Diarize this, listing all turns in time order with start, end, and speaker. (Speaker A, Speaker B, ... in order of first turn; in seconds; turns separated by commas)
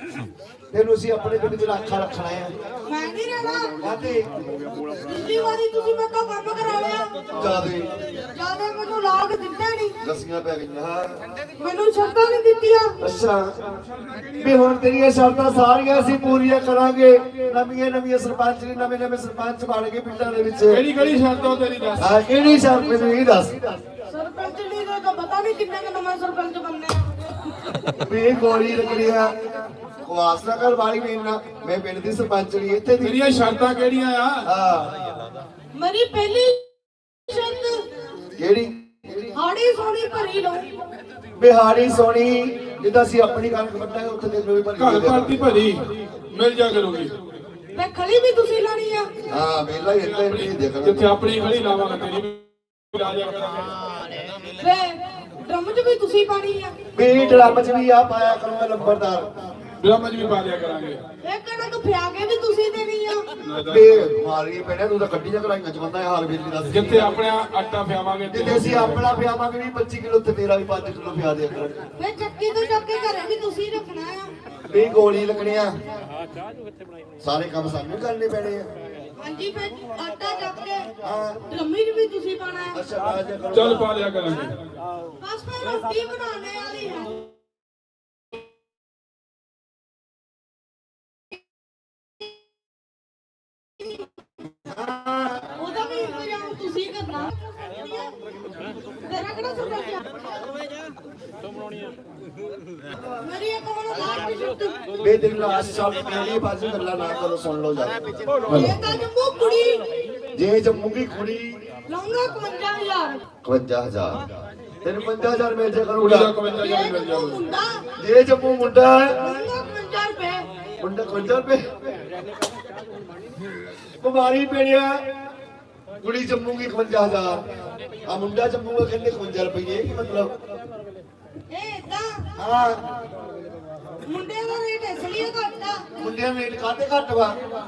Speaker A: 0.7-2.5, Speaker B: 2.9-3.7, Speaker A: 3.8-4.3, Speaker B: 5.0-7.1, Speaker A: 7.3-7.9, Speaker B: 8.3-9.9, Speaker A: 10.0-11.1, Speaker B: 11.6-12.9, Speaker A: 13.0-13.5, Speaker A: 14.3-20.8, Speaker C: 20.7-22.1, Speaker A: 22.0-23.8, Speaker B: 24.1-27.1, Speaker A: 28.0-33.2, Speaker C: 33.0-34.5, Speaker A: 34.5-34.9, Speaker B: 35.7-37.8, Speaker A: 38.4-39.3, Speaker B: 39.3-40.7, Speaker A: 41.4-45.4, Speaker C: 44.8-47.1, Speaker B: 47.7-49.1, Speaker A: 49.3-51.1, Speaker C: 50.1-53.7, Speaker B: 54.6-56.7, Speaker A: 56.9-59.3, Speaker C: 59.8-61.0, Speaker B: 61.2-63.3, Speaker C: 63.4-64.0, Speaker A: 63.6-67.2, Speaker C: 66.7-69.0, Speaker A: 68.3-71.8, Speaker B: 72.0-74.3, Speaker A: 74.7-75.7, Speaker A: 77.2-78.7, Speaker B: 79.2-80.9, Speaker A: 81.0-81.4, Speaker B: 81.5-82.8, Speaker A: 82.7-83.9, Speaker C: 83.5-84.5, Speaker B: 85.2-87.1, Speaker A: 94.7-95.5, Speaker B: 95.6-98.1, Speaker B: 99.0-100.1, Speaker B: 103.2-104.8, Speaker A: 105.0-108.0, Speaker C: 108.5-108.8, Speaker B: 108.5-109.9, Speaker A: 110.3-111.6, Speaker B: 111.9-113.2, Speaker A: 113.4-114.2, Speaker A: 114.8-116.3, Speaker C: 116.0-117.4, Speaker B: 116.6-117.8, Speaker A: 118.0-119.1, Speaker B: 119.2-120.4, Speaker A: 120.8-121.6, Speaker A: 124.0-125.0, Speaker A: 126.0-127.4, Speaker A: 128.1-130.3, Speaker B: 131.5-132.2, Speaker A: 132.4-132.8, Speaker B: 134.1-136.0, Speaker A: 136.0-137.4